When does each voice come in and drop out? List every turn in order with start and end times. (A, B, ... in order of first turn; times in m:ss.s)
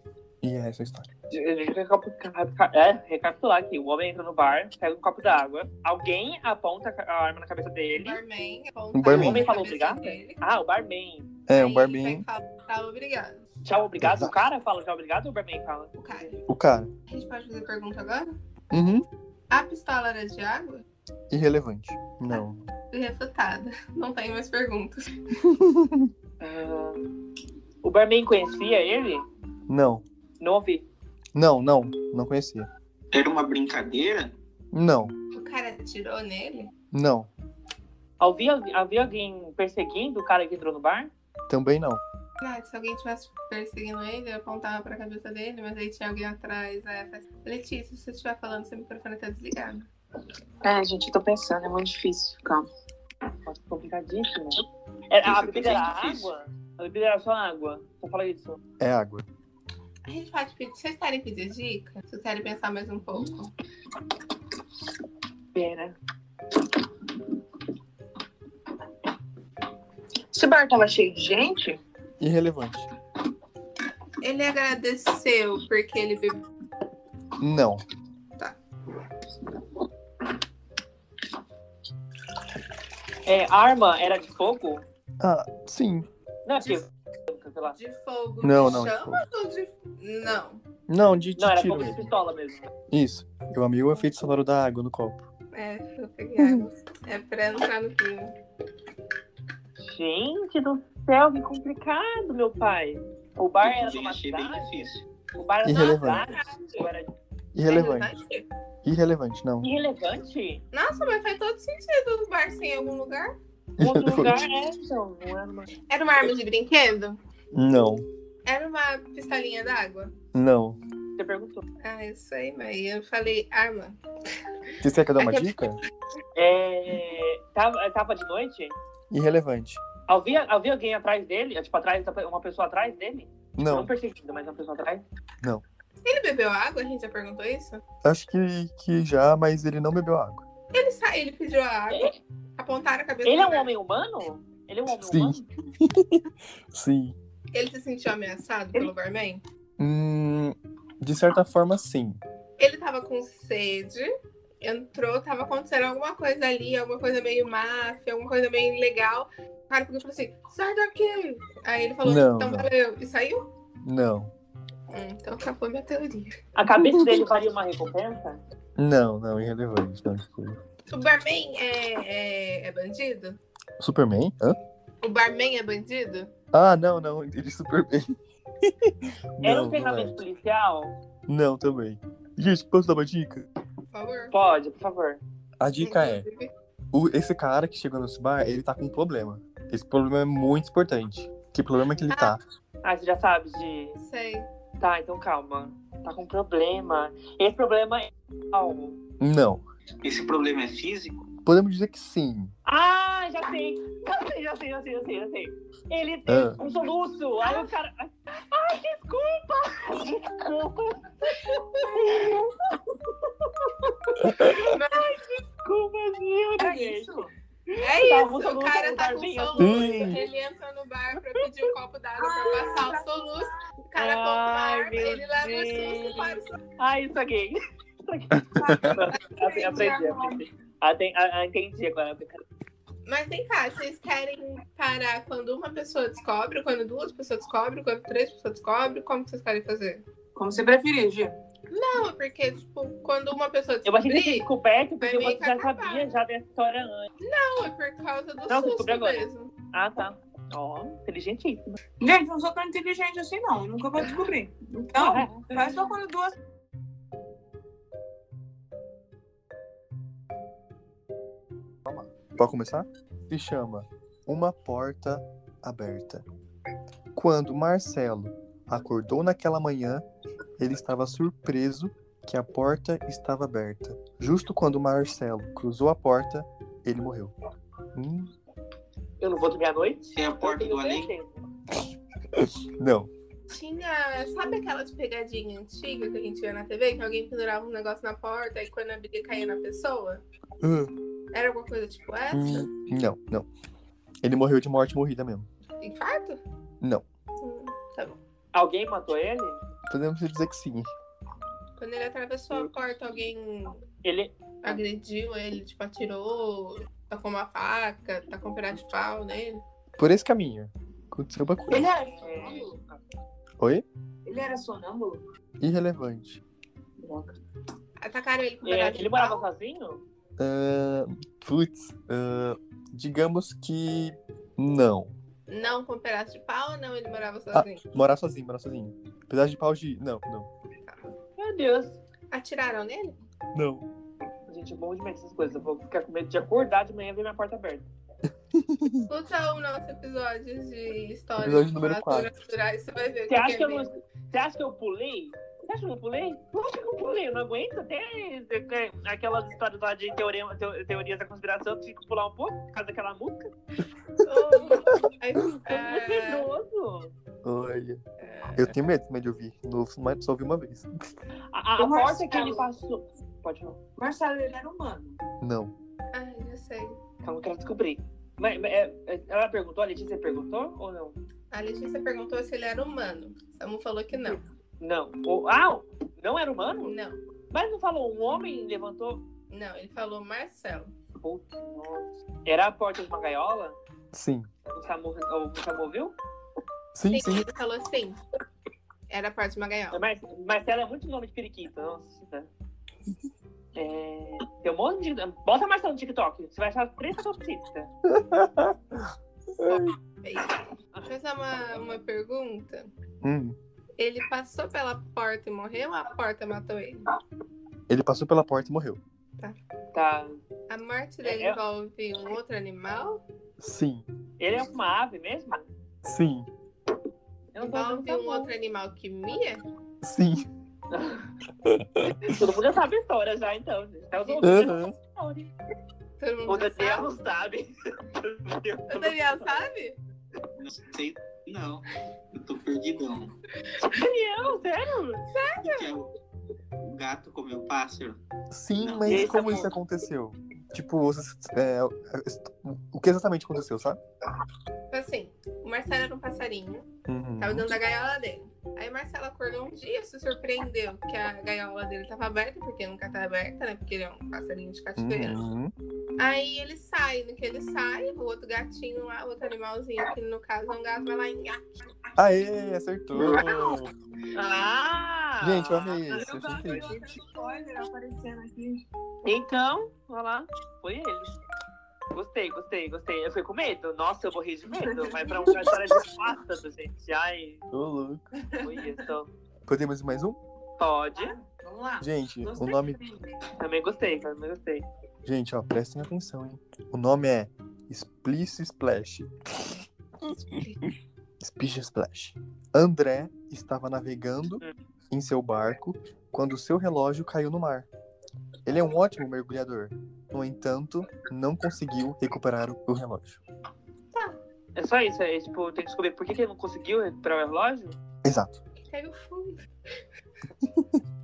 0:00.4-0:01.1 A
0:01.3-0:08.2 B
0:07.9-0:10.4 C
0:08.9-0:09.5 A
0:09.1-0:11.3 B
0:11.5-0:12.2 A
0:11.5-0:13.4 C
0:13.6-0:16.0 B
0:14.0-0:14.3 A
0:16.0-0:16.4 C
0:16.5-0:16.9 A
0:17.1-0:18.3 C
0:18.7-0:19.0 A
0:19.5-0:20.8 C
0:21.3-0:22.6 A
0:22.9-0:25.1 C
0:25.4-0:26.1 A
0:26.4-0:27.1 B
0:27.8-0:29.2 B
0:29.7-0:30.0 A
0:30.4-0:30.8 B
0:31.3-0:32.7 A
0:33.1-0:34.3 D
0:34.7-0:35.1 A
0:35.4-0:36.7 C
0:36.9-0:37.3 A
0:38.2-0:41.1 B
0:41.5-0:42.0 A
0:42.4-0:49.9 C
0:50.6-0:52.7 E
0:53.4-0:58.6 B
0:55.2-0:56.3 D
0:58.8-0:59.2 A
1:00.0-1:03.5 C
1:05.5-1:06.0 B
1:10.3-1:11.8 E
1:12.2-1:12.9 A
1:14.2-1:16.4 C
1:17.4-1:17.8 A
1:23.2-1:24.8 B
1:25.2-1:26.1 A
1:26.4-1:27.8 B
1:27.8-1:30.6 C
1:28.4-1:29.2 A
1:30.9-1:32.1 A
1:31.4-1:32.7 B
1:32.9-1:35.2 A
1:35.5-1:38.3 C
1:36.4-1:36.6 A
1:39.8-1:47.1 B
1:43.6-1:45.0 D
1:45.6-1:46.3 A
1:45.7-1:46.9 C
1:47.5-1:48.1 A
1:47.6-1:48.4 C
1:48.8-1:49.7 A
1:49.6-1:50.6 B
1:50.7-1:53.3 C
1:53.8-1:54.5 A
1:53.8-1:55.7 B
1:55.9-1:57.2 C
1:57.5-1:58.0 A
1:58.4-2:00.1 C
2:00.3-2:00.8 A
2:01.2-2:01.6 B
2:01.8-2:04.0 C
2:04.8-2:05.8 A
2:05.2-2:05.5 C
2:06.4-2:08.7 B
2:09.1-2:09.8 A
2:10.1-2:15.0 B
2:13.6-2:13.9 A
2:16.0-2:17.8 C
2:18.0-2:20.4 A
2:20.7-2:23.7 C
2:23.2-2:25.4 B
2:24.9-2:27.2 A
2:27.5-2:29.4 C
2:29.8-2:32.2 A
2:32.6-2:34.1 C
2:34.6-2:43.5 C
2:42.0-2:42.7 A
2:43.8-2:44.3 A
2:44.9-2:46.4 C
2:46.5-2:48.4 B
2:48.8-2:50.6 A
2:50.9-2:53.4 C
2:53.8-2:54.6 A
2:55.0-2:56.3 C
2:56.5-3:00.2 A
2:59.4-3:00.9 B
3:01.3-3:03.4 A
3:03.9-3:04.3 C
3:04.3-3:05.2 B
3:05.6-3:06.3 A
3:05.8-3:06.5 C
3:06.9-3:12.4 A
3:12.1-3:12.4 C
3:12.8-3:14.0 B
3:14.0-3:14.5 C
3:14.8-3:19.0 B
3:19.2-3:19.6 A
3:20.0-3:21.3 D
3:21.4-3:22.5 A
3:22.6-3:32.8 B
3:26.3-3:26.6 A
3:33.4-3:37.1 B
3:34.3-3:34.6 A
3:34.6-3:35.1 C
3:36.6-3:37.3 E
3:37.7-3:40.2 B
3:37.8-3:46.6 C
3:39.6-3:40.2 A
3:42.2-3:43.5 E
3:44.0-3:46.3 B
3:46.8-3:52.4 B
3:48.4-3:49.0 A
3:48.6-3:50.4 E
3:53.0-4:00.0 C
4:00.3-4:01.4 E
4:01.7-4:04.5 C
4:03.8-4:07.1 B
4:05.0-4:06.1 C
4:07.2-4:09.5 C
4:08.5-4:11.8 B
4:12.0-4:16.4 E
4:15.0-4:15.6 B
4:21.8-4:26.2 A
4:27.1-4:30.0 A
4:30.6-4:37.3 A
4:37.9-4:38.3 A
4:39.2-4:41.4 B
4:40.1-4:41.1 D
4:42.4-4:43.1 A
4:43.5-4:50.2 C
4:50.6-4:50.9 A
4:51.3-4:52.7 C
4:52.3-4:53.5 A
4:54.2-4:55.5 A
4:55.8-4:56.4 C
4:57.4-4:58.2 C
4:58.5-4:59.6 B
4:59.9-5:00.9 A
5:01.8-5:03.8 C
5:04.0-5:04.8 B
5:04.6-5:09.6 C
5:10.0-5:11.9 A
5:11.7-5:12.8 E
5:12.0-5:13.0 B
5:14.2-5:15.2 E
5:15.6-5:16.4 A
5:17.0-5:17.3 E
5:18.0-5:19.4 C
5:18.6-5:20.0 B
5:20.4-5:25.1 A
5:25.5-5:27.8 C
5:27.5-5:30.5 A
5:30.8-5:31.1 C
5:31.4-5:32.0 B
5:32.3-5:33.2 C
5:33.5-5:33.8 A
5:34.5-5:37.9 B
5:38.5-5:39.1 A
5:39.1-5:43.9 C
5:41.4-5:42.3 A
5:43.3-5:53.5 B
5:54.2-5:56.5 C
5:54.4-5:55.0 A
5:55.6-5:57.1 B
5:57.4-5:58.0 A
5:58.2-5:58.7 C
5:58.6-6:01.1 A
6:01.5-6:03.8 B
6:01.8-6:02.6 E
6:04.0-6:05.2 E
6:05.4-6:05.7 A
6:06.1-6:07.0 C
6:07.2-6:11.2 B
6:11.5-6:14.4 C
6:14.8-6:16.9 B
6:16.8-6:17.2 C
6:17.5-6:19.2 B
6:19.5-6:20.9 C
6:21.2-6:23.8 B
6:24.1-6:24.5 A
6:24.7-6:26.2 B
6:26.9-6:27.5 A
6:27.1-6:28.2 C
6:29.1-6:30.0 C
6:29.9-6:32.5 B
6:33.7-6:37.9 B
6:38.1-6:39.9 A
6:39.7-6:42.9 C
6:43.2-6:43.6 A
6:44.0-6:47.0 C
6:47.9-6:49.0 A
6:49.9-6:50.4 B
6:50.7-6:53.2 C
6:51.2-6:51.6 B
6:53.6-6:54.0 A
6:54.4-6:55.6 B
6:56.0-6:56.5 A
6:57.5-6:58.5 B
6:57.6-6:59.6 C
7:00.0-7:00.4 A
7:00.9-7:01.3 B
7:01.6-7:02.4 A
7:02.1-7:05.5 B
7:04.4-7:04.9 A
7:06.2-7:07.1 C
7:06.5-7:09.6 B
7:08.9-7:10.0 C
7:10.6-7:13.3 D
7:13.8-7:15.2 B
7:15.3-7:15.9 C
7:15.6-7:16.1 D
7:16.8-7:18.2 D
7:18.5-7:24.0 A
7:18.8-7:19.6 D
7:19.0-7:19.7 B
7:24.9-7:26.9 C
7:27.1-7:27.7 A
7:27.4-7:35.4 C
7:35.0-7:35.7 A
7:36.2-7:41.8 C
7:42.2-7:43.9 A
7:44.3-7:47.0 B
7:45.4-7:47.0 A
7:46.1-7:48.8 E
7:49.2-7:51.4 B
7:52.1-7:57.6 B
7:54.8-7:55.5 E
7:57.7-7:58.3 A
7:58.4-7:58.9 E
7:58.6-7:59.3 B
7:59.7-8:00.4 A
8:00.8-8:01.4 B
8:01.1-8:03.3 E
8:02.0-8:03.0 A
8:03.6-8:04.8 B
8:05.2-8:10.4 A
8:11.4-8:17.9 A
8:18.6-8:23.4 A
8:24.8-8:28.0 B
8:28.2-8:28.6 A
8:28.8-8:29.6 C